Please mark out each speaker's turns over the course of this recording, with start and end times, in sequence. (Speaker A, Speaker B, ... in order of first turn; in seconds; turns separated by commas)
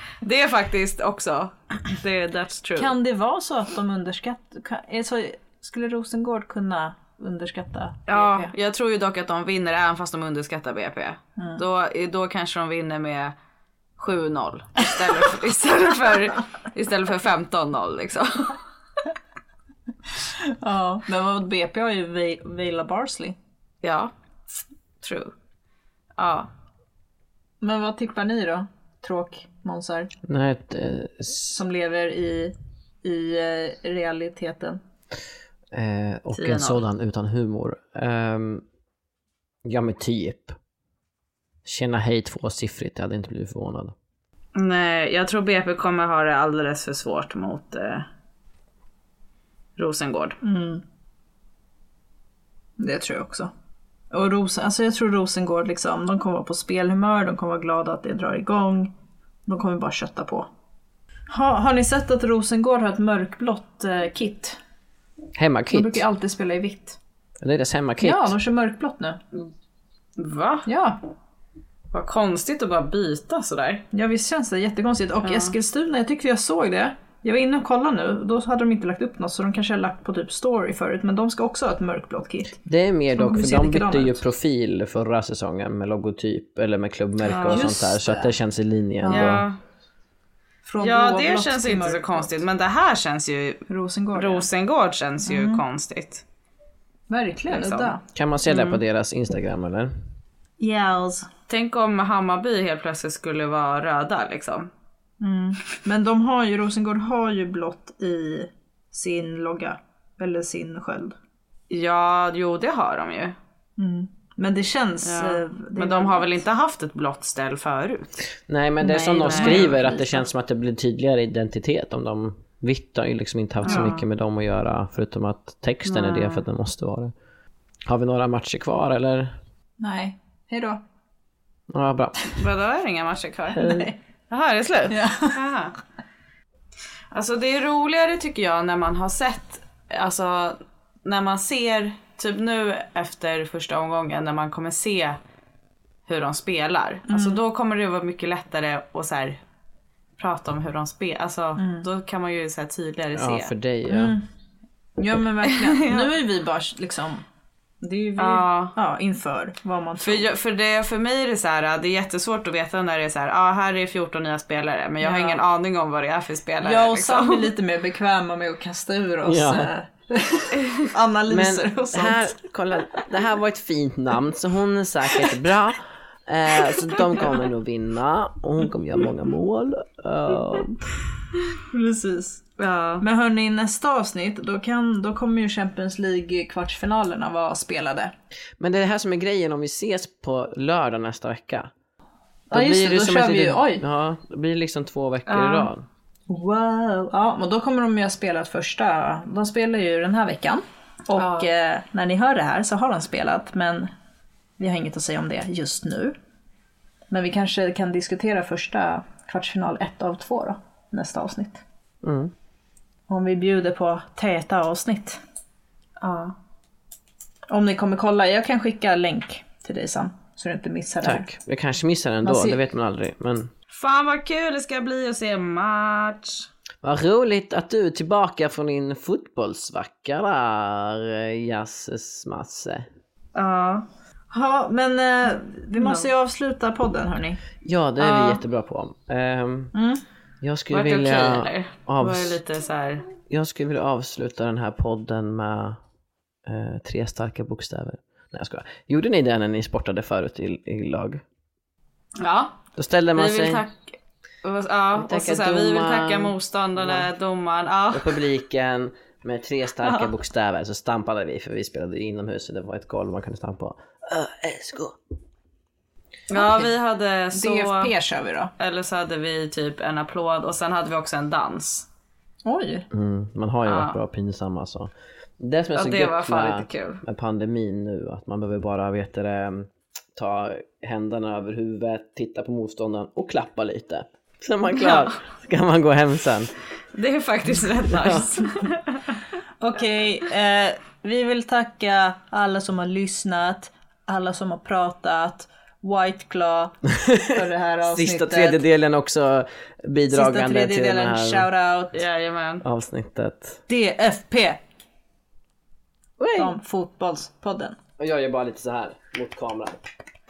Speaker A: 0.2-3.0, Speaker B: 2.8-8.5, Speaker A: 8.1-13.4, Speaker B: 11.4-11.6, Speaker A: 14.0-18.6, Speaker B: 20.4-23.4, Speaker A: 23.8-25.3, Speaker A: 26.2-26.5, Speaker B: 27.6-30.1, Speaker C: 30.2-31.6, Speaker B: 31.5-34.8, Speaker C: 35.7-38.6, Speaker A: 36.3-36.8, Speaker C: 39.6-40.6, Speaker C: 41.6-44.0, Speaker A: 44.5-48.1, Speaker A: 49.8-50.4, Speaker B: 50.4-50.8, Speaker B: 52.8-53.5, Speaker B: 54.1-58.9, Speaker B: 59.5-60.5, Speaker B: 61.3-64.6, Speaker C: 65.3-66.0, Speaker B: 65.7-67.0, Speaker C: 67.4-68.4, Speaker B: 68.0-69.2, Speaker A: 70.2-70.7, Speaker B: 70.7-71.0, Speaker A: 71.9-73.8, Speaker B: 73.9-82.6, Speaker A: 75.2-75.5, Speaker C: 82.7-89.5, Speaker B: 83.1-84.2, Speaker A: 87.3-87.6, Speaker B: 87.5-88.3, Speaker B: 89.0-89.4, Speaker A: 89.1-89.6, Speaker B: 90.6-92.4, Speaker A: 90.8-93.6, Speaker B: 93.7-94.5, Speaker A: 94.1-96.2, Speaker B: 95.2-95.6, Speaker B: 97.1-98.0, Speaker A: 97.5-98.0, Speaker C: 98.1-99.9, Speaker A: 98.5-98.8, Speaker B: 100.6-101.3, Speaker A: 101.5-104.7, Speaker B: 105.2-111.2, Speaker A: 111.7-113.4, Speaker B: 113.8-116.3, Speaker A: 115.0-118.1, Speaker C: 118.5-127.1, Speaker A: 118.8-119.7, Speaker B: 119.2-120.2, Speaker A: 123.6-124.0, Speaker A: 125.9-126.4, Speaker C: 127.9-129.4, Speaker B: 129.8-130.8, Speaker C: 131.7-132.3, Speaker A: 132.4-135.7, Speaker B: 133.5-133.9, Speaker B: 134.9-135.3, Speaker A: 137.1-145.2, Speaker A: 146.1-149.4, Speaker B: 147.1-147.4, Speaker A: 150.2-153.5, Speaker B: 151.6-151.9, Speaker C: 153.1-154.2, Speaker B: 153.9-154.2, Speaker B: 155.0-157.2, Speaker A: 155.5-156.1, Speaker B: 157.8-160.3, Speaker A: 158.2-158.8, Speaker A: 160.0-167.5, Speaker B: 165.0-165.4, Speaker B: 166.6-172.4, Speaker C: 169.2-169.7, Speaker C: 171.3-180.9, Speaker B: 181.7-182.4, Speaker A: 182.6-183.1, Speaker B: 183.0-188.1, Speaker C: 188.6-191.7, Speaker B: 192.5-193.8, Speaker C: 192.5-195.9, Speaker A: 195.3-195.7, Speaker B: 196.3-203.9, Speaker A: 201.1-201.5, Speaker B: 204.6-206.2, Speaker B: 207.1-211.6, Speaker C: 212.0-212.3, Speaker B: 213.1-215.2, Speaker A: 216.0-216.3, Speaker B: 217.5-221.3, Speaker C: 221.0-223.5, Speaker B: 222.2-222.6, Speaker A: 223.7-226.5, Speaker C: 226.8-232.9, Speaker A: 233.3-233.9, Speaker B: 234.3-237.4, Speaker A: 235.8-236.1, Speaker C: 237.6-239.7, Speaker A: 238.0-238.3, Speaker B: 239.7-240.0, Speaker C: 240.4-242.4, Speaker A: 240.7-243.1, Speaker C: 243.3-245.8, Speaker C: 246.4-251.2, Speaker A: 252.2-252.6, Speaker C: 252.8-253.6, Speaker A: 253.1-258.2, Speaker C: 254.9-257.1, Speaker C: 257.9-265.0, Speaker A: 266.3-267.9, Speaker B: 266.3-266.7, Speaker B: 267.3-268.5, Speaker A: 268.6-271.9, Speaker B: 272.4-272.9, Speaker C: 272.9-286.5, Speaker A: 273.6-274.0, Speaker A: 275.7-277.0, Speaker A: 284.7-285.1, Speaker A: 286.9-289.2, Speaker C: 287.9-288.3, Speaker B: 289.6-298.6, Speaker C: 297.0-301.5, Speaker B: 300.1-302.0, Speaker A: 301.9-302.6, Speaker C: 302.6-303.6, Speaker B: 303.7-304.6, Speaker C: 306.2-306.6, Speaker B: 306.4-307.8, Speaker C: 308.0-309.8